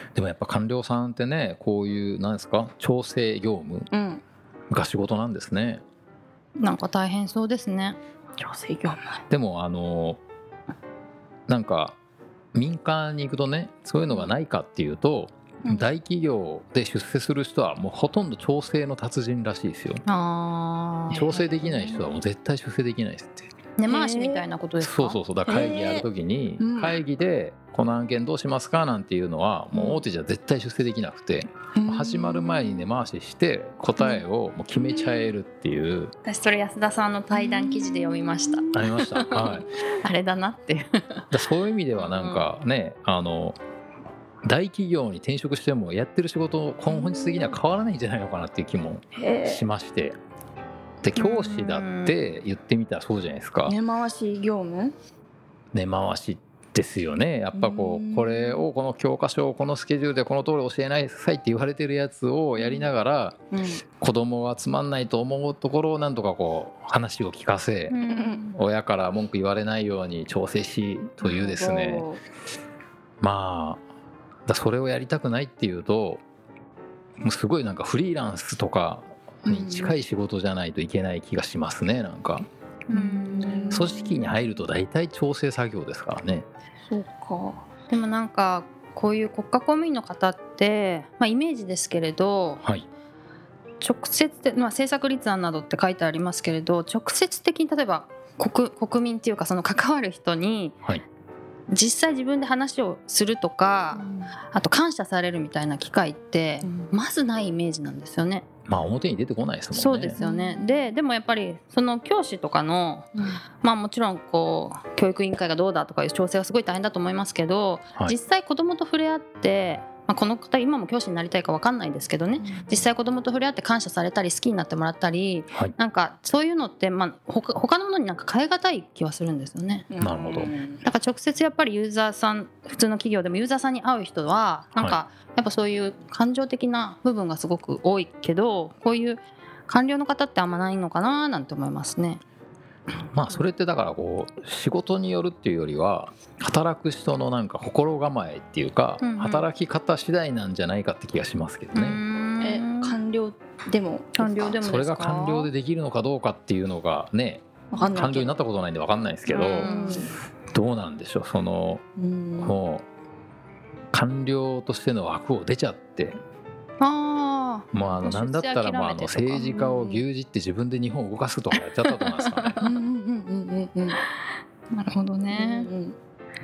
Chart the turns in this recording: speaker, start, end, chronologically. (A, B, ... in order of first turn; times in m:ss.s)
0:00.1-0:03.9 A
0:03.9-0:04.2 B
0:04.7-0:05.8 A
0:06.6-0:08.0 C
0:08.4-0:09.2 B
0:09.3-0:10.2 A
0:11.5-0:12.0 A
0:12.5-0:20.0 A
0:20.0-0:22.0 C
0:21.1-0:23.5 A
0:23.8-0:25.2 C
0:23.8-0:24.4 B
0:24.8-0:36.1 A
0:25.4-0:26.0 B
0:26.6-0:27.0 B
0:29.7-0:30.0 B
0:31.7-0:32.9 B
0:34.0-0:34.2 B
0:36.2-0:41.2 C
0:37.3-0:38.8 B
0:38.7-0:39.7 A
0:41.3-0:43.6 A
0:41.9-0:42.5 C
0:44.4-0:50.2 A
0:46.9-0:47.6 B
0:49.1-0:49.6 B
0:51.0-0:53.8 A
0:51.1-0:52.2 C
0:53.6-0:54.9 B
0:55.7-1:03.4 A
0:57.5-0:58.6 B
1:03.5-1:03.8 B
1:04.0-1:08.0 A
1:07.9-1:08.5 C
1:08.1-1:08.4 B
1:08.5-1:12.1 A
1:11.2-1:12.2 B
1:13.2-1:13.8 A
1:14.5-1:16.2 A
1:17.2-1:22.4 A
1:19.4-1:19.9 B
1:22.9-1:24.0 C
1:22.9-1:24.0 B
1:23.7-1:26.4 A
1:26.9-1:27.6 B
1:27.9-1:32.6 C
1:33.8-1:40.8 C
1:41.7-1:48.4 C
1:44.0-1:44.3 B
1:46.6-1:46.9 B
1:48.7-1:50.2 A
1:49.7-2:09.9 C
1:50.2-1:50.8 B
2:02.4-2:02.8 B
2:09.9-2:10.8 B
2:10.0-2:10.5 A
2:10.8-2:22.2 C
2:23.1-2:32.0 A
2:29.0-2:29.5 C
2:31.7-2:33.0 C
2:32.4-2:34.6 B
2:34.2-2:35.5 C
2:34.6-2:39.7 A
2:37.7-2:38.3 B
2:37.7-2:38.1 C
2:39.3-2:40.1 C
2:39.5-2:40.1 B
2:40.5-2:41.8 A
2:42.0-2:42.6 B
2:42.4-2:42.8 A
2:43.9-2:46.2 A
2:46.8-2:50.0 C
2:47.7-2:52.6 A
2:52.0-2:52.6 C
2:52.6-2:54.0 B
2:54.2-2:55.7 C
2:55.3-2:56.0 B